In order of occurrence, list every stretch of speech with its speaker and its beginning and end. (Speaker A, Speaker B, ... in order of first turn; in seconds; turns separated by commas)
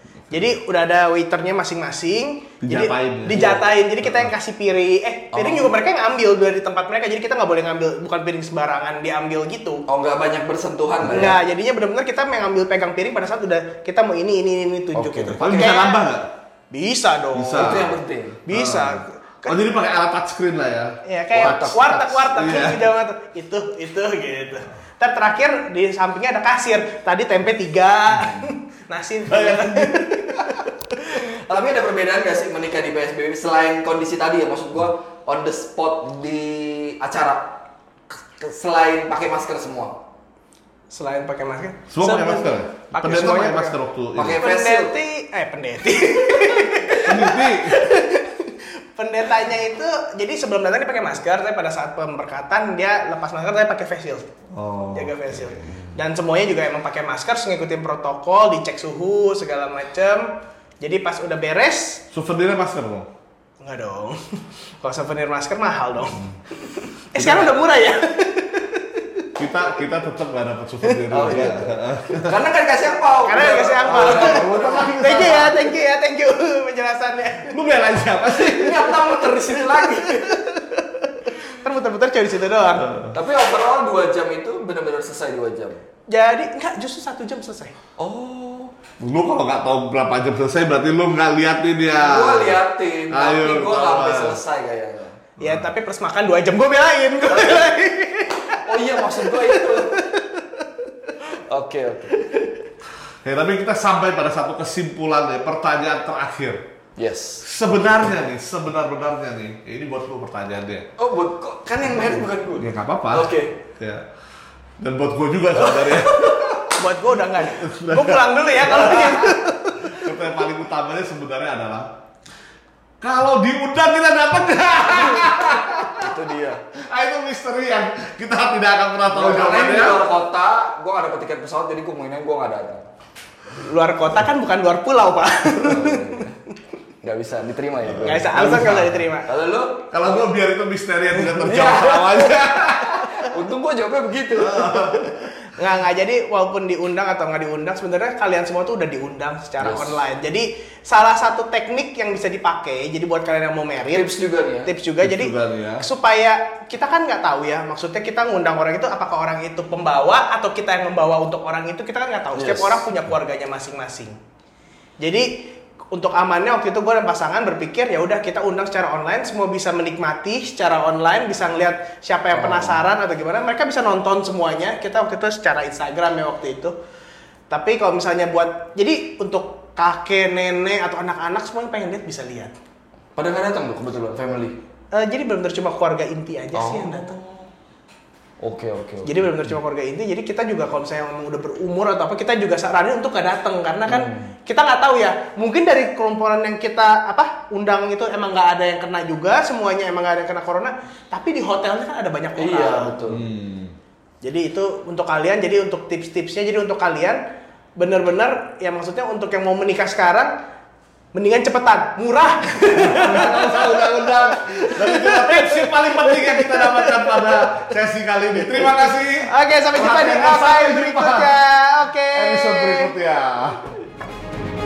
Speaker A: 0.3-9.8, Speaker B: 2.6-4.3, Speaker C: 3.3-3.6, Speaker C: 5.3-5.7, Speaker C: 9.9-11.4, Speaker A: 11.0-16.0, Speaker C: 14.9-15.5, Speaker B: 15.3-16.3, Speaker A: 16.7-17.8, Speaker B: 17.3-22.9, Speaker C: 17.6-18.4, Speaker A: 18.5-19.6, Speaker A: 21.0-30.7, Speaker C: 21.3-21.8, Speaker B: 29.3-30.0, Speaker C: 31.0-37.5, Speaker C: 38.1-40.0, Speaker A: 40.9-43.8, Speaker B: 41.9-44.4, Speaker C: 44.1-44.9, Speaker A: 44.3-54.2, Speaker B: 47.0-47.8, Speaker B: 54.5-55.8, Speaker A: 54.9-62.0, Speaker B: 62.1-63.1, Speaker A: 63.6-64.2, Speaker A: 64.8-69.3, Speaker B: 69.4-72.4, Speaker A: 70.8-71.3, Speaker C: 71.1-75.5, Speaker A: 73.2-77.6, Speaker B: 73.8-75.5, Speaker B: 77.4-79.2, Speaker C: 78.3-80.3, Speaker A: 79.7-82.9, Speaker B: 82.7-83.2, Speaker C: 83.1-85.8, Speaker A: 86.1-87.7, Speaker C: 88.0-88.7, Speaker B: 89.0-94.4, Speaker C: 91.9-95.2, Speaker A: 95.4-100.9, Speaker B: 95.4-95.7, Speaker C: 97.3-97.7, Speaker C: 98.5-100.0, Speaker C: 101.2-102.2, Speaker B: 103.2-106.6, Speaker C: 107.0-107.5, Speaker B: 107.4-110.9, Speaker C: 111.0-113.5, Speaker B: 112.6-114.0, Speaker B: 114.8-116.6, Speaker C: 115.7-116.7, Speaker A: 116.7-120.0, Speaker B: 117.4-121.9, Speaker C: 118.9-119.3, Speaker B: 123.0-126.1, Speaker C: 124.9-126.6, Speaker B: 126.7-130.0, Speaker C: 129.1-132.8, Speaker A: 133.5-136.3, Speaker C: 135.6-136.3, Speaker C: 137.0-138.4, Speaker B: 137.9-139.1, Speaker A: 138.0-139.3, Speaker C: 139.2-139.9, Speaker B: 139.9-143.2, Speaker C: 141.2-144.9, Speaker B: 144.3-145.5, Speaker A: 145.4-154.1, Speaker C: 149.6-150.0, Speaker C: 153.9-154.7, Speaker A: 154.6-164.2, Speaker B: 155.0-155.8, Speaker C: 162.3-162.9, Speaker A: 165.0-176.7, Speaker C: 172.3-172.8, Speaker A: 177.5-182.5, Speaker C: 183.2-184.6, Speaker A: 184.9-187.2, Speaker C: 186.5-187.5, Speaker C: 188.4-189.3, Speaker A: 189.0-203.0, Speaker C: 193.9-194.3, Speaker C: 202.3-203.2, Speaker B: 203.1-203.7, Speaker A: 204.2-207.2, Speaker A: 207.8-210.3, Speaker A: 211.1-213.8, Speaker B: 212.7-221.3, Speaker A: 214.4-217.6, Speaker A: 219.2-222.9, Speaker B: 222.1-223.6